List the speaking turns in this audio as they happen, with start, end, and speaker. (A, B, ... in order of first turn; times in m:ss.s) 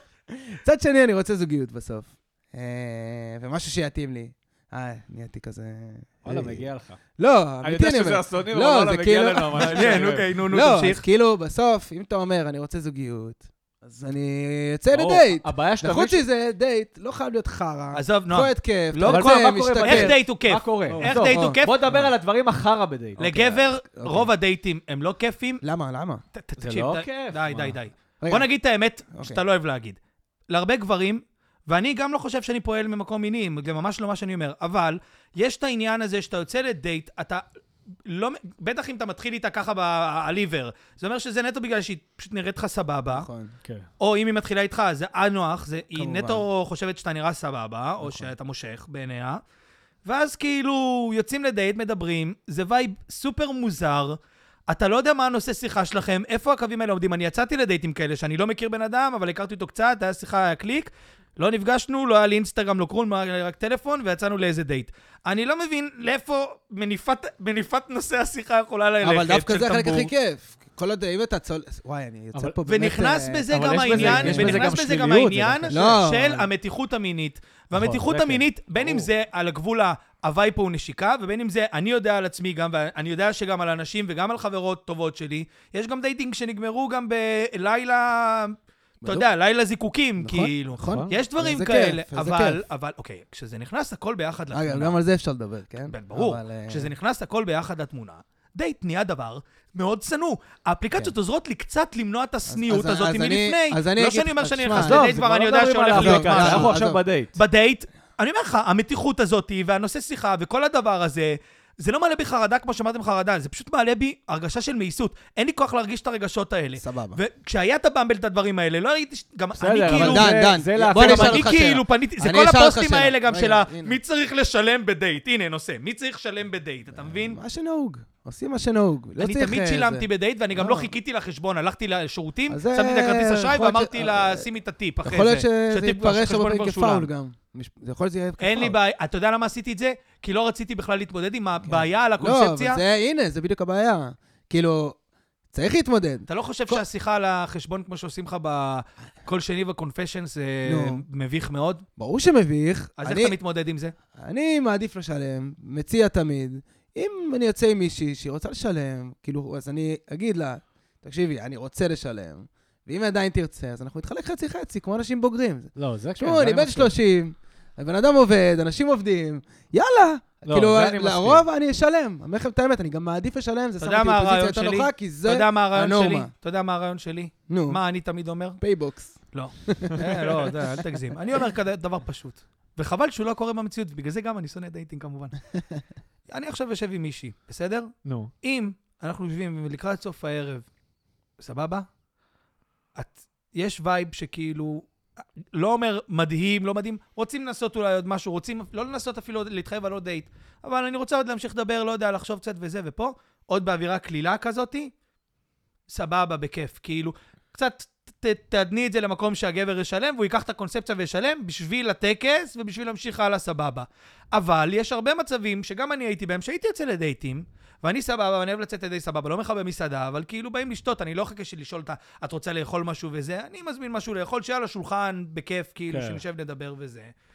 0:00.3-0:06.7 A
0:06.2-0:07.0 B
0:07.2-0:20.1 A
0:07.6-0:10.3 B
0:09.6-0:11.0 C
0:14.9-0:16.2 B
0:17.9-0:21.8 C
0:19.1-0:23.2 B
0:20.9-0:22.1 A
0:23.2-0:24.3 A
0:23.2-0:25.6 C
0:25.6-0:26.2 A
0:26.3-0:30.0 C
0:26.6-0:27.8 B
0:28.2-0:28.5 A
0:29.1-0:29.4 A
0:30.5-0:37.4 C
0:38.1-0:43.3 C
0:43.1-0:43.5 A
0:44.0-0:49.4 C
0:45.9-0:46.4 A
0:48.0-0:48.3 A
0:50.0-0:54.2 C
0:54.7-1:10.1 C
1:09.0-1:14.7 A
1:12.7-1:35.0 C
1:13.5-1:15.8 B
1:15.7-1:16.5 A
1:17.7-1:19.0 B
1:29.0-1:29.3 A
1:30.2-1:32.6 A
1:30.8-1:31.2 B
1:34.5-1:36.9 A
1:35.9-1:46.7 C
1:42.5-1:45.1 A
1:44.7-1:47.3 B
1:45.9-1:47.0 A
1:47.4-2:00.2 C
1:56.8-1:57.2 A
1:59.6-2:01.6 B
1:59.9-2:04.0 A
2:00.9-2:07.4 C
2:06.9-2:10.9 A
2:09.2-2:17.1 C
2:12.5-2:14.4 A
2:15.0-2:18.8 A
2:18.4-2:22.8 C
2:21.6-2:25.0 A
2:25.5-2:26.8 A
2:26.3-2:31.8 C
2:30.6-2:31.0 A
2:32.0-2:33.4 A
2:33.0-2:33.9 C
2:34.1-2:56.3 A
2:45.8-2:46.9 B
2:50.4-2:51.4 B
2:53.8-2:58.6 C
2:57.5-2:57.8 A
2:58.6-3:00.8 A
2:59.3-3:05.3 C
3:06.3-3:07.9 C
3:08.0-3:08.3 B
3:08.4-3:10.6 C
3:11.4-3:11.8 C
3:13.0-3:14.8 C
3:15.5-3:24.9 C
3:25.9-3:47.1 C
3:45.9-3:46.2 B